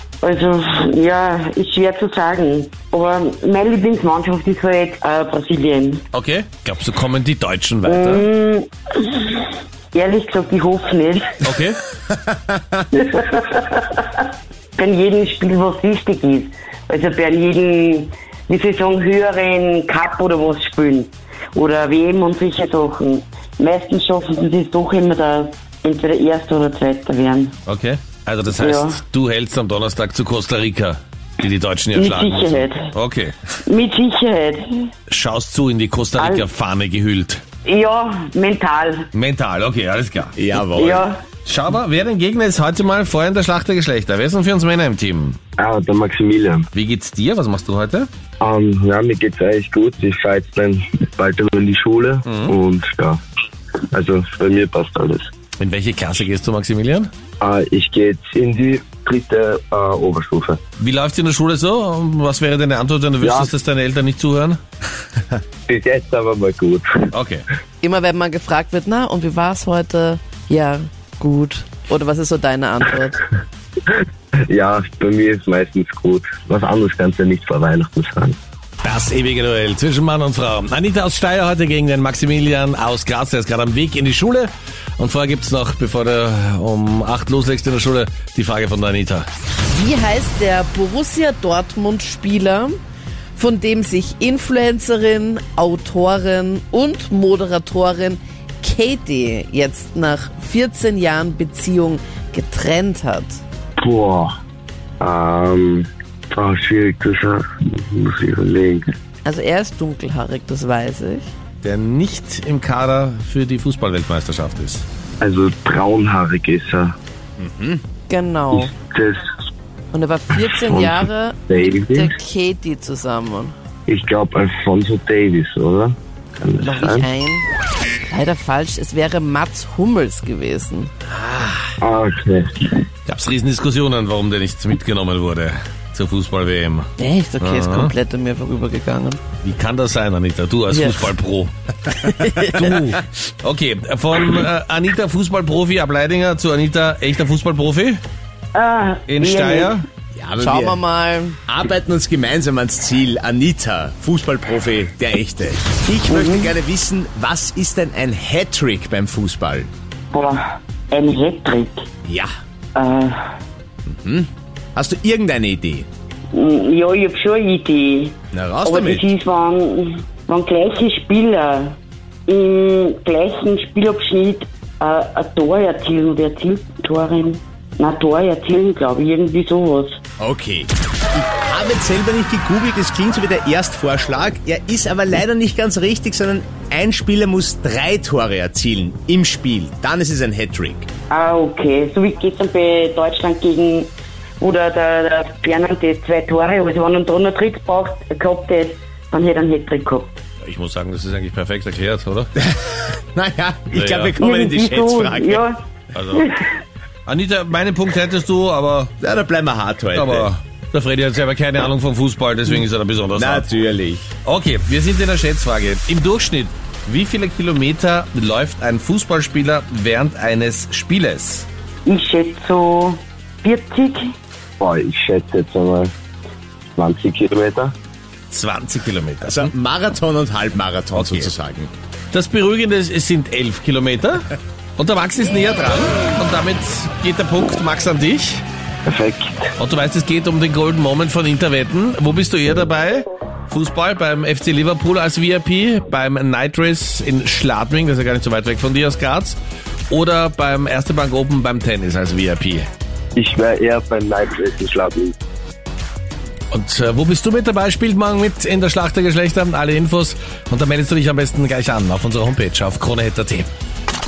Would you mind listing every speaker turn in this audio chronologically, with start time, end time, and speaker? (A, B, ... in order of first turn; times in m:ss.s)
0:00.2-0:06.0 A
0:06.1-0:08.3 B
0:08.1-0:08.6 A
0:09.9-0:11.2 A
0:11.4-0:11.8 B
0:14.7-0:27.5 A
0:27.7-0:33.4 B
0:28.6-0:29.0 A
0:32.0-0:32.8 A
0:33.7-0:34.8 A
0:35.1-0:37.4 B
0:36.2-0:36.4 A
0:37.6-0:39.0 A
0:39.1-0:40.3 B
0:40.4-0:41.1 C
0:40.8-0:41.1 A
0:41.4-0:45.4 B
0:45.6-0:46.7 D
0:46.7-0:48.1 B
0:48.4-0:53.2 D
0:53.9-0:55.3 D
0:55.6-0:57.1 B
0:57.4-1:00.6 D
1:00.8-1:04.6 B
1:03.2-1:03.5 D
1:05.7-1:06.9 D
1:07.1-1:07.4 B
1:07.8-1:13.2 E
1:14.4-1:18.4 D
1:18.8-1:29.3 B
1:29.7-1:32.8 E
1:33.3-1:43.4 E
1:43.8-1:44.3 D
1:45.0-1:48.8 D
1:49.2-1:51.3 E
1:51.6-1:54.8 B
1:55.2-1:56.9 D
1:57.4-1:57.8 C
1:58.1-1:58.7 E
1:58.5-1:59.2 D
1:59.9-2:03.5 E
2:00.4-2:02.1 D
2:03.9-2:07.1 D
2:06.6-2:07.5 E
2:08.1-2:10.9 E
2:11.8-2:12.8 D
2:13.1-2:16.9 B
2:17.0-2:19.2 E
2:17.4-2:17.9 B
2:19.4-2:21.5 B
2:20.7-2:21.1 E
2:21.9-2:22.8 E
2:22.5-2:28.0 B
2:28.5-2:29.7 A
2:29.1-2:29.8 B
2:30.2-2:30.8 C
2:30.4-2:31.4 E
2:31.5-2:39.7 C
2:41.1-2:41.8 A
2:42.0-2:42.3 C
2:42.8-2:43.3 A
2:43.9-2:45.9 C
2:46.3-2:48.1 A
2:48.3-2:49.1 C
2:48.7-2:49.1 E
2:49.2-2:51.7 A
2:52.3-3:00.0 A
3:00.2-3:10.9 C
3:11.1-3:13.2 E
3:11.9-3:12.4 A
3:13.2-3:13.8 A
3:14.5-3:15.4 E
3:14.8-3:20.1 A
3:16.4-3:17.2 E
3:17.8-3:18.5 E
3:20.4-3:22.3 B
3:22.4-3:25.5 C
3:23.7-3:24.2 B
3:25.9-3:26.3 B
3:27.0-3:28.9 B
3:29.0-3:30.3 C
3:29.9-3:33.5 B
3:33.2-3:34.0 C
3:34.2-3:41.4 B
3:41.8-3:44.1 E
3:44.6-3:45.9 D
3:46.8-3:47.7 D
3:48.3-3:49.5 B
3:49.2-3:51.7 C
3:50.9-3:51.3 B
3:52.1-3:58.4 B
3:58.8-3:59.5 D
3:59.6-4:09.4 B
4:09.9-4:12.7 B
4:13.1-4:15.1 D
4:16.5-4:23.5 B